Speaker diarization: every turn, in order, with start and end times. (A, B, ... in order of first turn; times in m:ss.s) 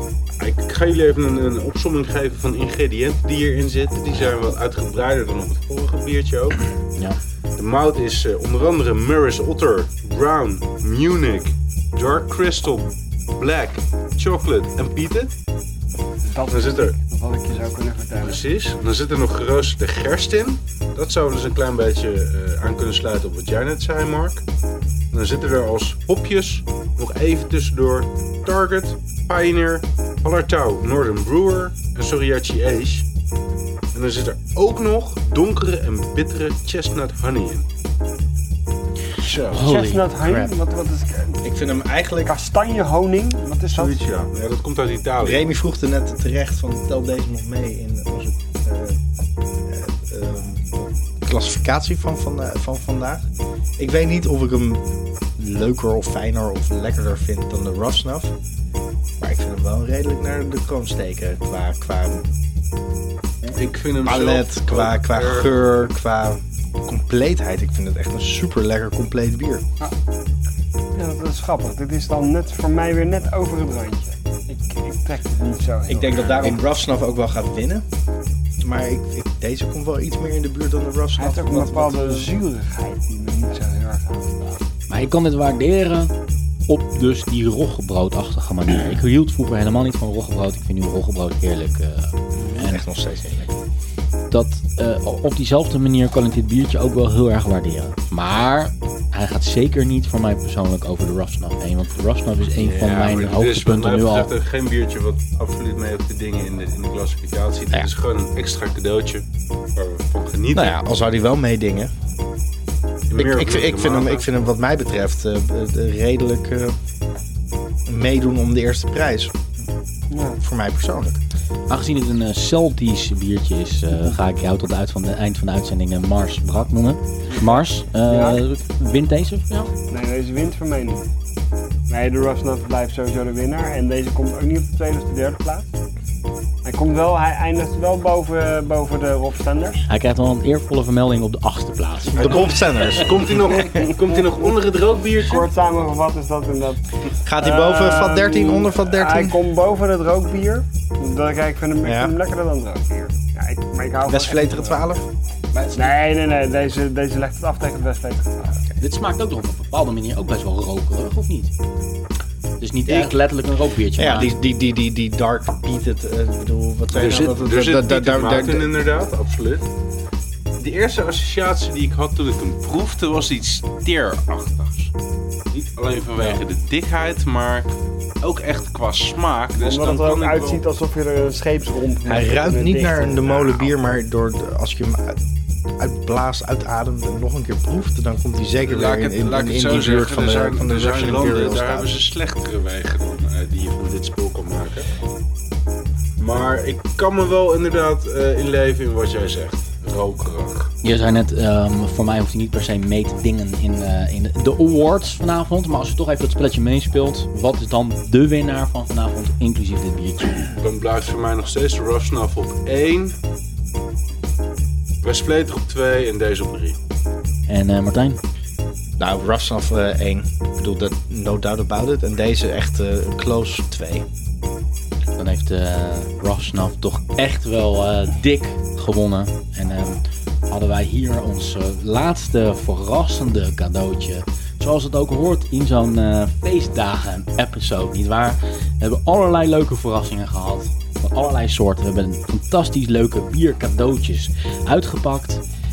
0:00.4-0:06.6 A
0:07.6-0:15.3 A
0:16.2-0:18.4 B
0:16.5-0:17.0 A
0:18.2-0:24.4 A
0:25.1-0:33.1 A
0:33.9-0:37.6 A
0:39.2-0:39.7 A
0:39.5-0:40.6 C
0:39.5-0:41.4 B
0:41.4-0:42.4 D
0:42.3-0:44.0 B
0:43.7-0:45.5 A
0:45.2-0:49.0 D
0:49.7-0:53.2 D
0:53.8-0:58.3 D
0:59.2-1:02.2 D
1:03.5-1:05.9 A
1:04.0-1:09.7 D
1:11.0-1:16.4 B
1:15.9-1:17.9 D
1:18.6-1:22.3 D
1:21.2-1:24.6 B
1:24.9-1:26.1 C
1:26.7-1:32.8 C
1:32.4-1:32.6 B
1:32.6-1:33.5 D
1:34.3-1:44.3 C
1:42.6-1:49.2 A
1:49.8-1:50.8 A
1:50.5-1:51.9 D
1:53.1-1:54.3 A
1:53.2-1:56.8 D
1:57.9-1:59.3 D
2:00.1-2:00.4 B
2:00.4-2:01.2 D
2:01.7-2:09.7 C
2:07.3-2:08.4 B
2:09.9-2:11.1 B
2:11.9-2:15.7 B
2:16.6-2:19.9 B
2:19.9-2:22.5 C
2:22.1-2:23.6 D
2:22.2-2:25.5 A
2:23.6-2:24.0 B
2:25.2-2:26.8 B
2:27.2-2:29.4 D
2:27.4-2:34.9 B
2:31.8-2:32.2 D
2:34.1-2:35.0 D
2:35.5-2:36.0 C
2:35.8-2:38.6 B
2:38.8-2:41.5 C
2:42.6-2:44.4 C
2:42.9-2:43.2 D
2:44.0-2:48.8 D
2:46.9-2:49.7 A
2:50.6-2:54.9 A
2:55.5-3:00.6 A
2:59.6-3:03.4 B
3:02.0-3:05.2 D
3:05.8-3:12.0 D
3:08.6-3:14.9 A
3:16.2-3:20.7 A
3:20.8-3:30.5 C
3:30.6-3:33.2 A
3:35.0-3:36.8 A
3:37.5-3:38.2 C
3:39.0-3:44.1 D
3:45.2-4:05.4 C